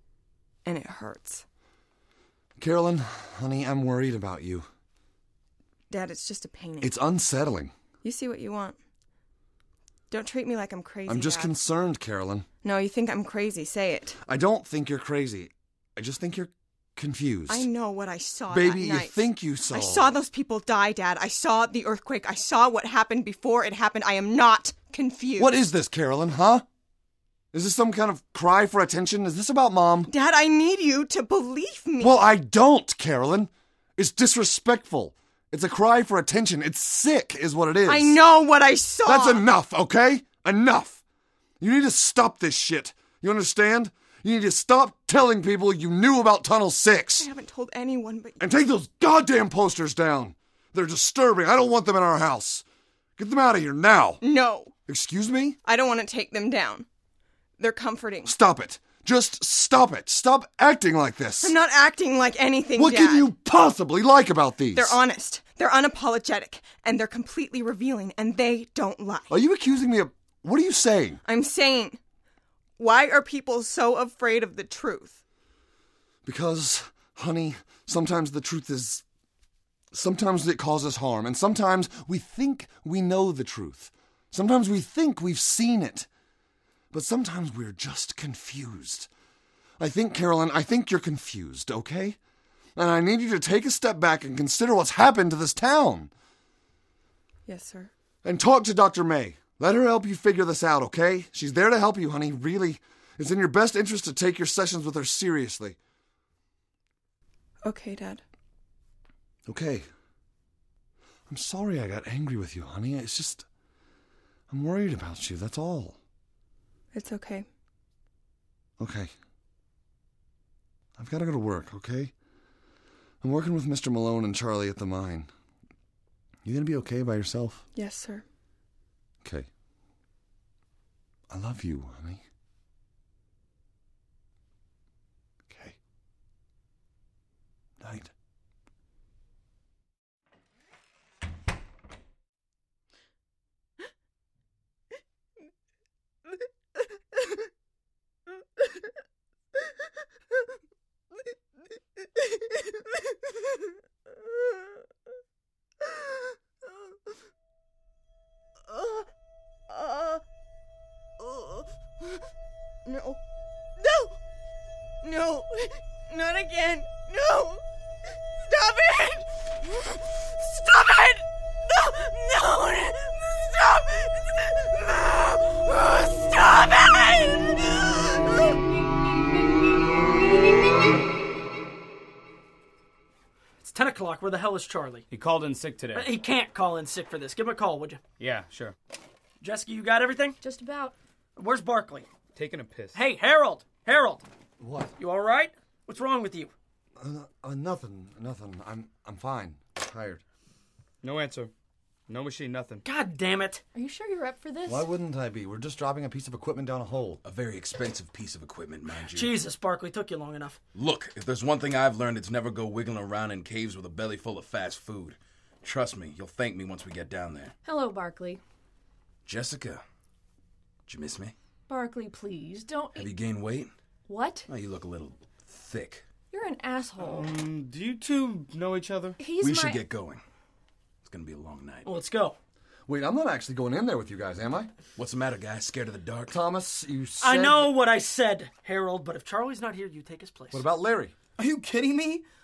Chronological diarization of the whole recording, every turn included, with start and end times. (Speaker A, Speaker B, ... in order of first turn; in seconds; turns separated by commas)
Speaker A: 0.6-1.4, Speaker B: 2.6-4.7, Speaker A: 5.9-6.9, Speaker B: 6.8-7.7, Speaker A: 8.0-8.8, Speaker A: 10.1-11.5, Speaker B: 11.1-12.4, Speaker A: 12.6-14.2, Speaker B: 14.2-17.7, Speaker A: 17.5-25.6, Speaker B: 18.5-20.2, Speaker B: 25.4-26.6, Speaker B: 27.5-30.1, Speaker A: 30.1-32.2, Speaker B: 32.0-38.2, Speaker A: 37.9-39.4, Speaker B: 39.0-41.0, Speaker B: 41.6-47.3, Speaker A: 47.2-48.4, Speaker B: 48.4-52.6, Speaker B: 53.2-54.2, Speaker A: 54.2-54.7, Speaker B: 54.9-55.6, Speaker A: 55.6-56.9, Speaker A: 57.6-58.3, Speaker B: 58.2-61.5, Speaker A: 61.4-63.3, Speaker B: 62.8-65.0, Speaker A: 64.7-69.3, Speaker B: 69.3-71.2, Speaker A: 71.2-72.0, Speaker A: 72.8-75.2, Speaker B: 76.2-79.0, Speaker B: 79.9-86.1, Speaker B: 86.9-89.1, Speaker B: 89.8-92.2, Speaker B: 92.8-96.1, Speaker A: 97.5-97.9, Speaker B: 98.2-105.8, Speaker A: 107.6-108.2, Speaker B: 109.5-109.9, Speaker B: 111.3-113.5, Speaker B: 114.5-116.0, Speaker A: 116.9-117.5, Speaker B: 118.8-119.1, Speaker B: 121.0-122.1, Speaker B: 123.2-125.3, Speaker B: 126.4-127.6, Speaker A: 127.7-128.2, Speaker B: 129.2-129.5, Speaker B: 131.3-132.2, Speaker B: 135.5-135.8, Speaker B: 137.8-138.1, Speaker A: 158.7-159.1, Speaker A: 159.7-160.2, Speaker A: 161.2-162.2, Speaker A: 162.8-163.2, Speaker A: 163.8-164.2, Speaker A: 165.0-167.6, Speaker A: 168.4-178.5, Speaker C: 183.6-185.1, Speaker D: 185.1-186.1, Speaker C: 185.9-188.0, Speaker D: 188.2-188.7, Speaker C: 189.4-190.4, Speaker E: 190.4-190.9, Speaker C: 191.3-192.1, Speaker D: 192.3-193.0, Speaker C: 192.9-194.2, Speaker B: 194.6-194.9, Speaker C: 195.0-196.5, Speaker B: 197.0-200.2, Speaker D: 201.0-201.5, Speaker D: 202.1-202.8, Speaker C: 202.8-203.6, Speaker E: 203.7-204.9, Speaker B: 204.7-207.2, Speaker F: 207.2-209.4, Speaker C: 208.9-210.6, Speaker F: 210.7-217.5, Speaker E: 217.6-218.4, Speaker F: 219.2-219.8, Speaker F: 220.9-221.3, Speaker E: 221.7-223.1, Speaker F: 222.9-223.7, Speaker E: 224.1-224.5, Speaker F: 224.5-226.0, Speaker E: 226.3-227.3, Speaker D: 227.0-229.2, Speaker E: 229.2-229.9, Speaker F: 229.4-230.2, Speaker F: 231.0-231.9, Speaker C: 231.8-232.4, Speaker B: 232.9-234.7, Speaker F: 234.9-236.3, Speaker B: 236.3-237.7, Speaker C: 237.2-240.6, Speaker B: 240.5-241.2